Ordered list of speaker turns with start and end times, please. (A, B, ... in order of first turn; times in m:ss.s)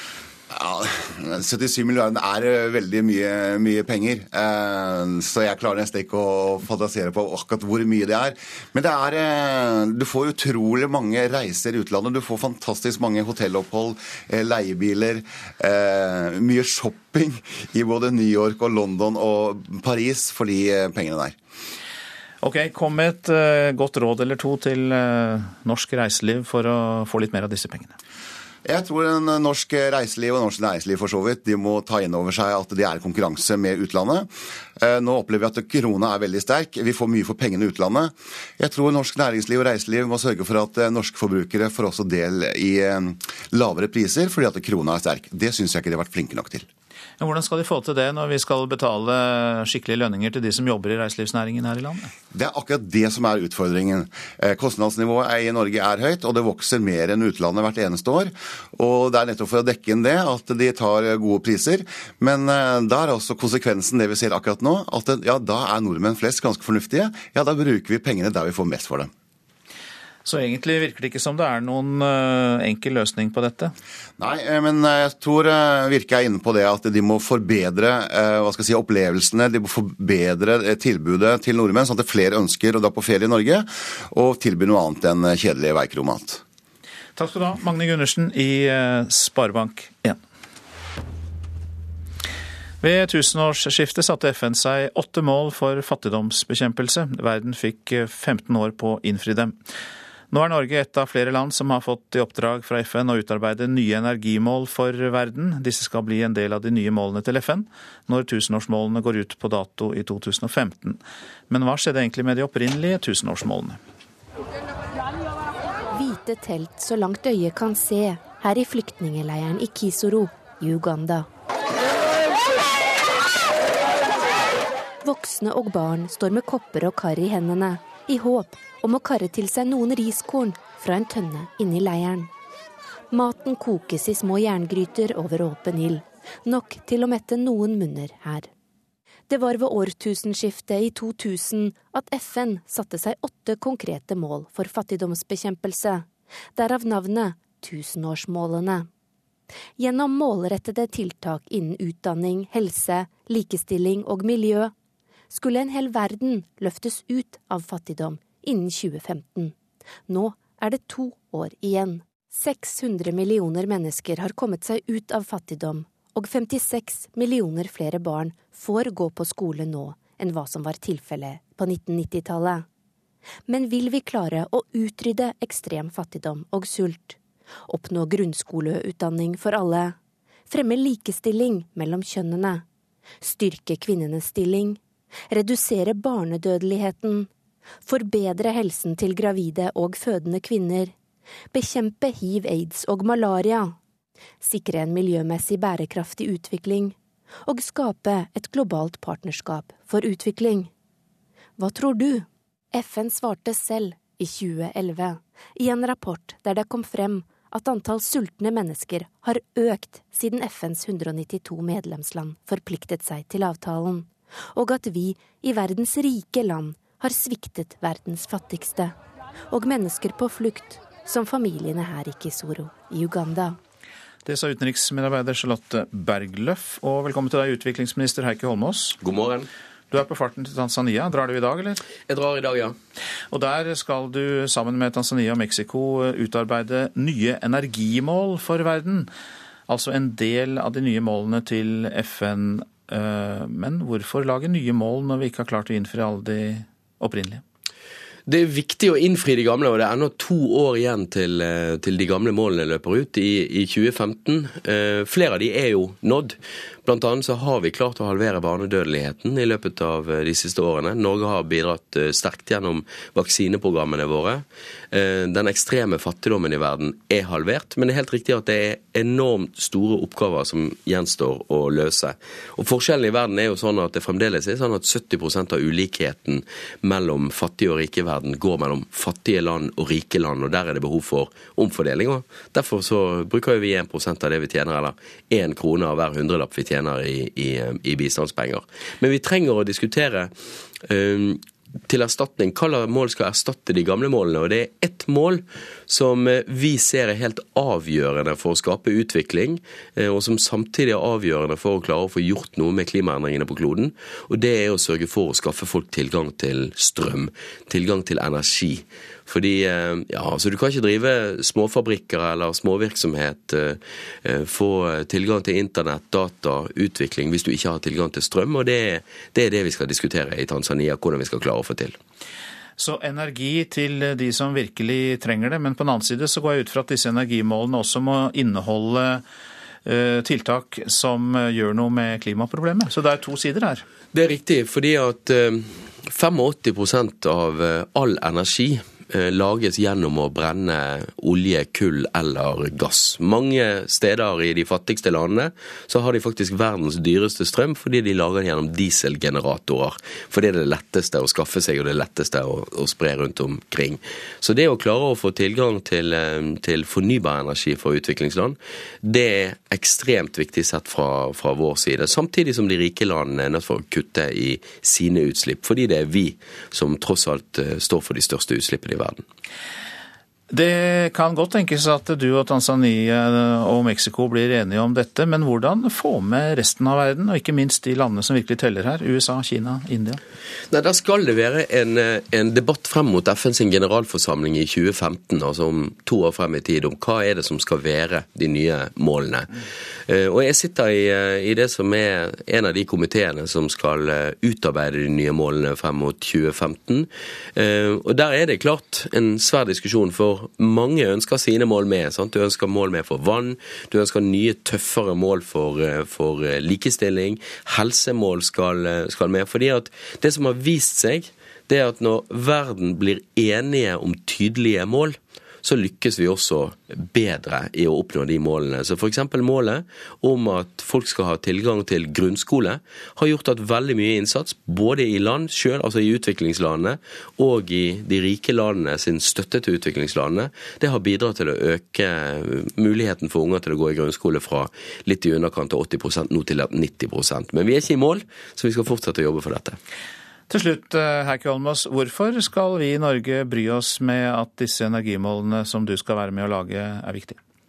0:00.5-0:21.4 A
0:22.4-0:28.0 B
0:28.6-0:46.7 A
0:47.2-0:52.1 B
0:52.3-1:09.1 A
1:10.2-1:13.7 B
1:14.2-1:26.4 A
1:27.2-1:30.2 B
1:32.8-1:39.6 B
1:40.3-1:53.8 B
1:55.9-2:01.3 C
2:05.0-2:12.3 C
2:13.1-2:18.5 C
2:19.3-2:28.9 C
2:29.8-2:34.7 C
2:35.3-2:39.6 C
2:40.1-2:52.6 C
2:53.5-3:00.0 C
3:00.5-3:02.6 C
3:03.2-3:04.8 C
3:05.3-3:07.3 C
3:07.9-3:10.9 C
3:11.5-3:13.8 C
3:14.4-3:20.7 C
3:21.6-3:39.0 C
3:39.5-3:43.6 C
3:44.2-3:49.0 B
3:49.0-3:49.5 D
3:49.9-3:51.8 B
3:52.1-3:52.8 D
3:53.3-3:59.1 B
3:59.7-4:07.4 B
4:08.3-5:22.0 D
5:22.8-5:29.2 B
5:29.9-5:33.8 B
5:34.1-6:09.2 D
6:10.5-6:20.2 B
6:20.7-6:29.5 D
6:30.1-7:19.8 D
7:20.5-7:27.4 B